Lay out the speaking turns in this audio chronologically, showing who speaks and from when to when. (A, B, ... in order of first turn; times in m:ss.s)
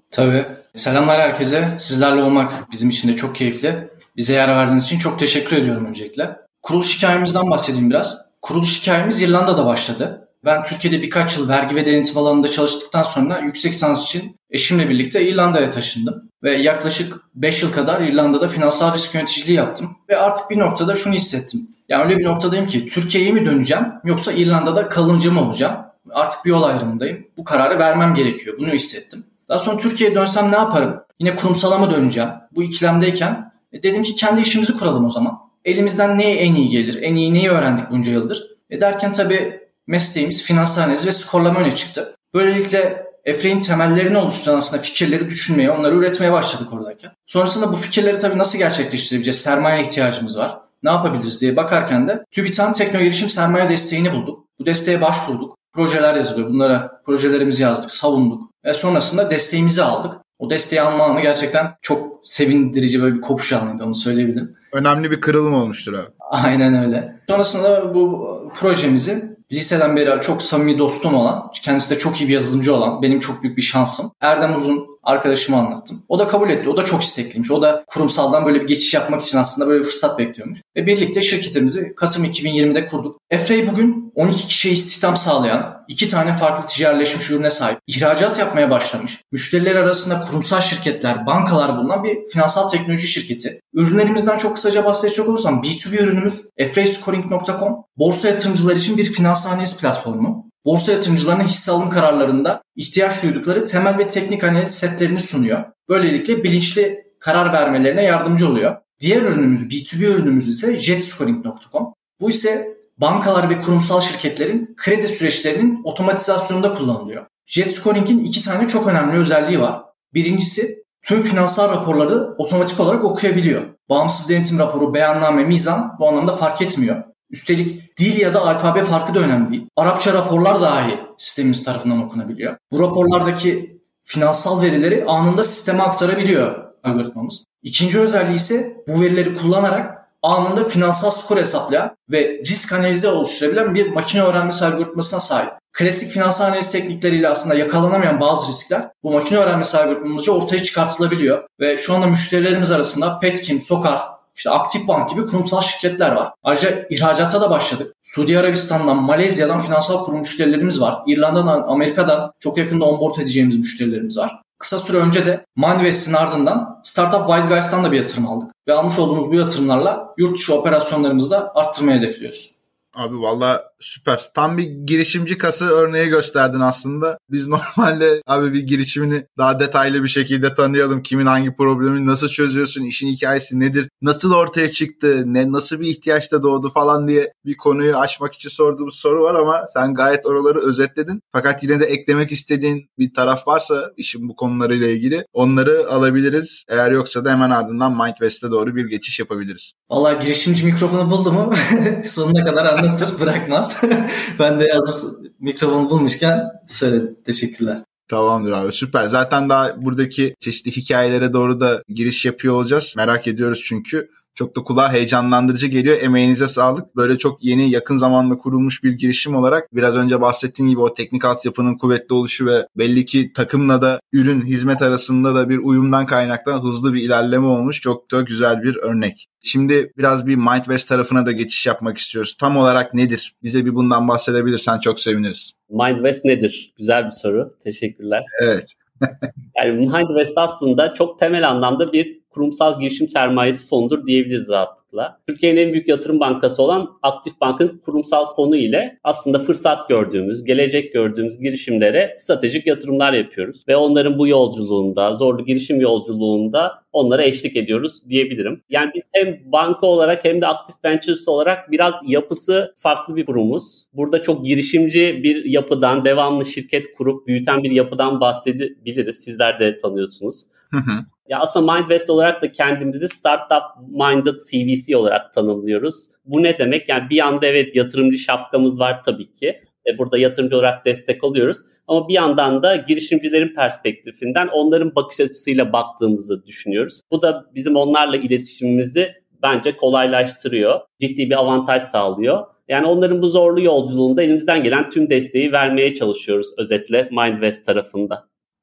0:00.1-1:04.6 A
1:04.7-1:06.1 B
1:06.3-2:52.5 A
2:53.0-3:19.7 B
3:19.9-3:27.8 A
3:28.1-3:55.5 B
3:55.7-3:58.3 C
3:58.4-3:58.8 B
3:59.6-4:30.5 C
4:30.7-4:31.1 B
4:31.3-4:58.2 C